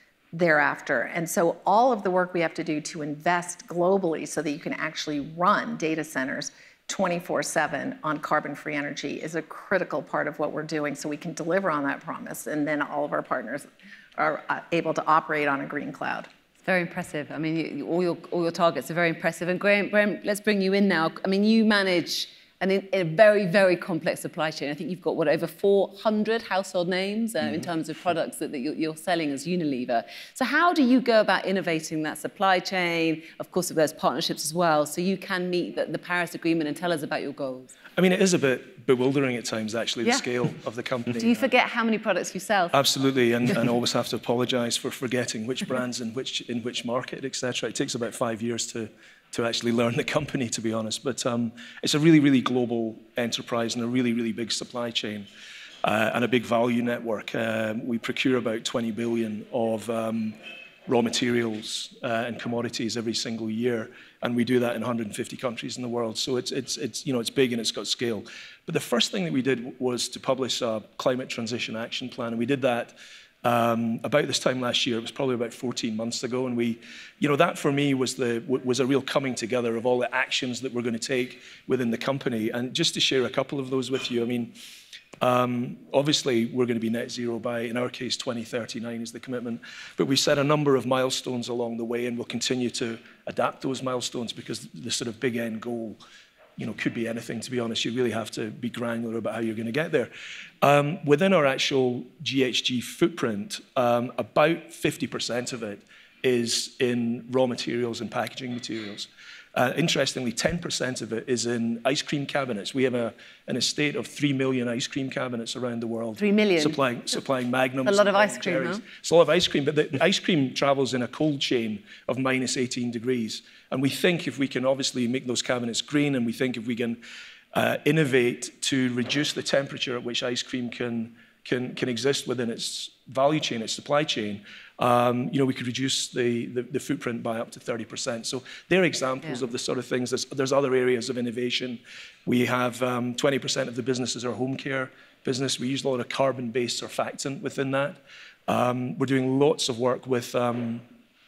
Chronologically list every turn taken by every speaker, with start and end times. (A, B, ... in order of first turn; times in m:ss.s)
0:00.3-0:16.3 A
0:16.6-0:37.7 B
0:38.0-0:41.5 C
0:41.2-0:42.8 B
0:42.7-0:55.3 C
0:55.8-1:24.5 C
1:25.2-1:36.0 C
1:36.6-1:40.1 C
1:40.6-2:07.0 C
1:56.2-1:56.8 B
1:57.8-1:58.8 B
2:07.5-2:30.8 C